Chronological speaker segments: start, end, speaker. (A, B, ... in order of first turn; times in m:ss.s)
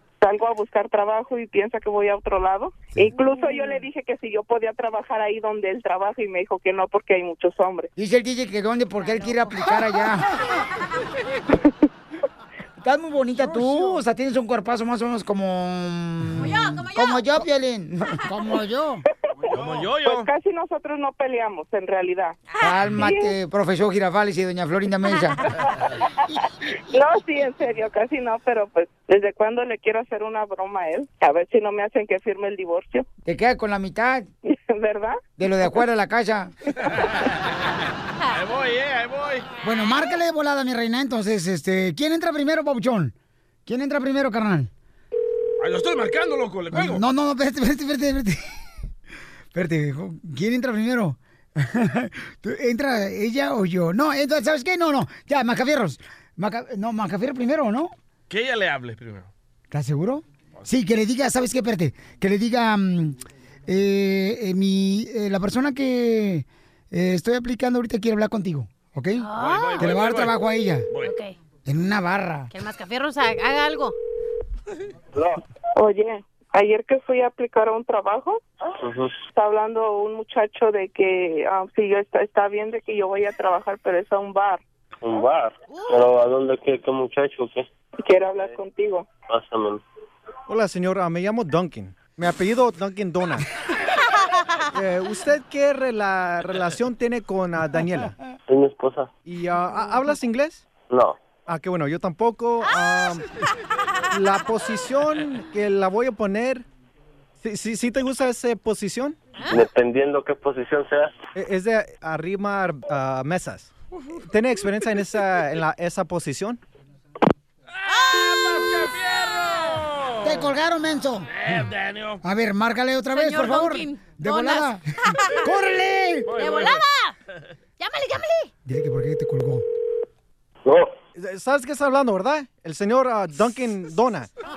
0:00.2-0:07.9 A
0:08.0-0:10.3 B
0:12.8-0:19.0 B
0:13.6-0:14.0 C
0:16.4-0:17.3 D
0:19.5-0:22.4 A
0:19.5-0:20.3 E
0:22.6-0:25.4 B
0:23.0-0:23.3 A
0:26.9-0:33.1 A
0:33.2-0:34.3 B
0:34.5-0:35.2 A
0:35.4-0:36.5 B
0:38.3-0:39.5 E
0:39.6-0:43.1 B
0:43.7-0:44.7 B
0:45.6-0:47.0 E
0:46.7-0:48.4 B
0:49.5-0:57.9 B
0:58.3-0:59.3 E
0:59.7-1:09.3 B
1:09.2-1:09.8 D
1:09.4-1:10.4 E
1:09.8-1:10.9 B
1:11.0-1:11.4 D
1:11.7-1:12.5 B
1:12.5-1:14.0 D
1:15.1-1:15.4 F
1:15.8-1:18.4 A
1:18.8-1:19.2 F
1:19.3-1:24.6 A
1:25.0-1:27.7 F
1:25.7-1:26.0 D
1:28.0-1:29.1 A
1:29.2-1:29.8 F
1:30.5-1:33.4 C
1:34.7-1:38.2 C
1:38.5-1:39.1 F
1:39.2-1:40.7 C
1:40.8-1:41.2 F
1:41.5-1:43.2 C
1:44.1-1:46.6 C
1:47.4-1:49.2 C
1:49.5-1:51.1 F
1:51.4-1:53.7 C
1:54.3-1:56.6 C
1:57.9-1:58.8 D
1:57.9-2:00.3 E
2:00.2-2:01.3 B
2:01.3-2:02.2 E
2:02.2-2:06.3 B
2:03.1-2:05.4 D
2:06.3-2:06.8 E
2:06.3-2:07.1 D
2:07.8-2:08.5 D
2:08.7-2:09.6 B
2:10.6-2:10.9 F
2:11.2-2:14.3 C